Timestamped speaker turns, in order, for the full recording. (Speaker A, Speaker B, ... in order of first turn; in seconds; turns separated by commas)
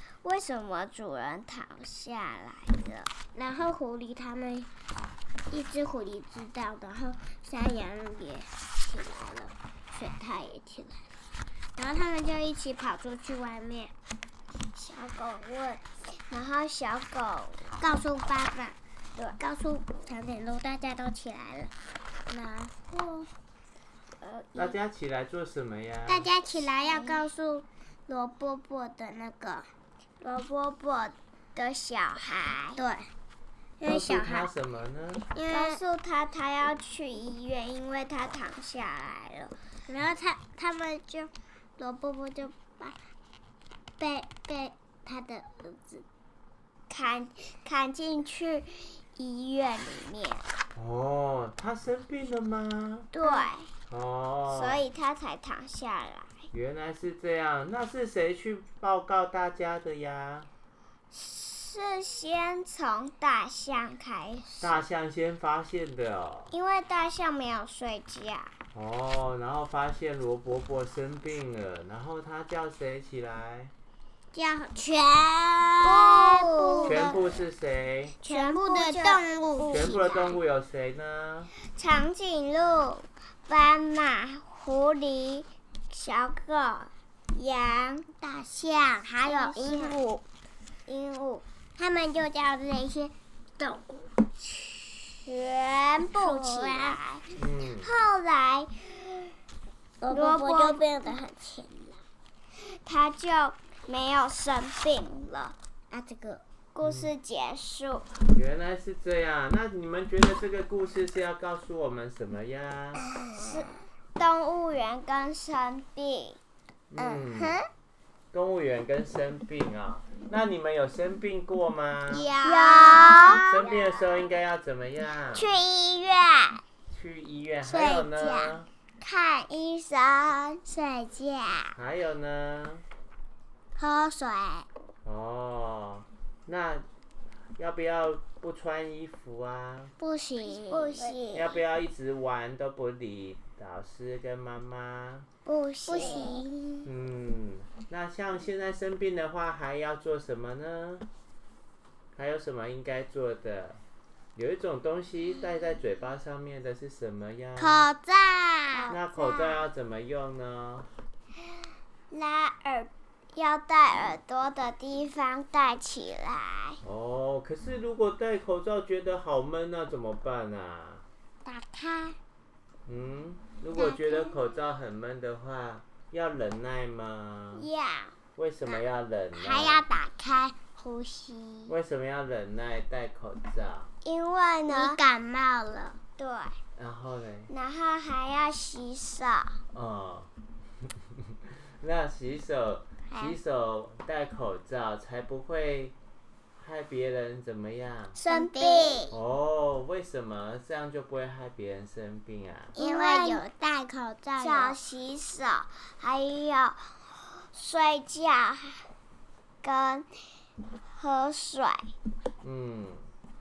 Speaker A: 0.2-3.1, Speaker B: 3.4-4.7, Speaker B: 5.5-11.1, Speaker B: 11.8-13.9, Speaker A: 14.7-17.8, Speaker B: 17.8-18.8, Speaker B: 19.4-21.7, Speaker B: 22.3-23.3, Speaker A: 24.2-24.8, Speaker C: 24.6-26.3, Speaker B: 26.1-29.7, Speaker A: 26.6-27.2, Speaker A: 30.2-32.8, Speaker B: 32.8-33.1, Speaker B: 33.8-34.5, Speaker C: 33.9-35.3, Speaker B: 35.3-35.8, Speaker A: 35.5-39.5, Speaker B: 39.9-43.0, Speaker B: 44.0-46.0, Speaker A: 46.9-50.4, Speaker C: 50.8-53.1, Speaker B: 53.2-53.5, Speaker A: 53.2-53.7, Speaker C: 53.9-54.8, Speaker A: 54.5-56.4, Speaker C: 56.5-60.5, Speaker A: 61.1-64.8, Speaker C: 64.6-66.5, Speaker A: 66.5-68.5, Speaker C: 68.7-73.7, Speaker B: 74.3-77.4, Speaker A: 75.8-77.2, Speaker C: 76.8-78.2, Speaker B: 78.2-80.2, Speaker A: 78.3-80.4, Speaker C: 79.7-81.5, Speaker A: 81.7-88.1, Speaker B: 88.1-90.2, Speaker A: 89.2-90.0, Speaker A: 90.9-91.4, Speaker B: 91.8-95.3, Speaker A: 95.2-99.3, Speaker B: 96.1-97.3, Speaker C: 97.3-97.9, Speaker B: 100.0-102.0, Speaker A: 100.1-101.1, Speaker A: 102.6-105.6, Speaker B: 105.9-106.4, Speaker A: 106.7-108.1, Speaker C: 106.8-107.1, Speaker C: 108.3-113.0, Speaker A: 113.4-116.4, Speaker C: 116.9-117.6, Speaker B: 117.0-117.6, Speaker C: 118.3-122.3, Speaker B: 122.1-123.7, Speaker A: 122.4-123.7, Speaker C: 123.3-125.5, Speaker A: 125.3-126.6, Speaker C: 126.9-128.7, Speaker B: 127.6-128.6, Speaker A: 129.0-130.6, Speaker B: 130.7-131.8, Speaker C: 131.8-132.8, Speaker B: 133.8-134.7, Speaker C: 135.0-136.8, Speaker C: 137.6-139.9, Speaker B: 140.0-141.2, Speaker A: 140.5-141.6, Speaker C: 141.3-145.3, Speaker B: 145.5-146.9, Speaker A: 145.5-146.4, Speaker C: 146.8-151.1, Speaker C: 152.2-153.8, Speaker C: 154.4-157.9, Speaker B: 157.6-158.9, Speaker A: 158.7-159.7, Speaker C: 158.9-160.9, Speaker A: 162.1-166.8, Speaker C: 166.8-171.1, Speaker B: 171.4-172.2, Speaker C: 172.9-177.7, Speaker B: 173.7-174.3, Speaker A: 177.5-178.2, Speaker C: 178.4-179.9, Speaker B: 179.3-181.7, Speaker C: 181.7-183.9, Speaker A: 184.0-185.0, Speaker B: 184.7-186.0, Speaker A: 186.2-186.6, Speaker C: 186.8-187.5, Speaker A: 187.5-189.6, Speaker C: 189.7-190.3, Speaker C: 191.8-195.9, Speaker B: 193.1-193.4, Speaker C: 196.6-198.2, Speaker B: 198.2-199.1, Speaker A: 198.2-199.1, Speaker C: 199.1-202.8, Speaker A: 202.8-203.4, Speaker B: 202.8-204.8, Speaker A: 204.4-208.9, Speaker A: 209.6-210.1, Speaker A: 210.9-211.9, Speaker C: 212.4-213.1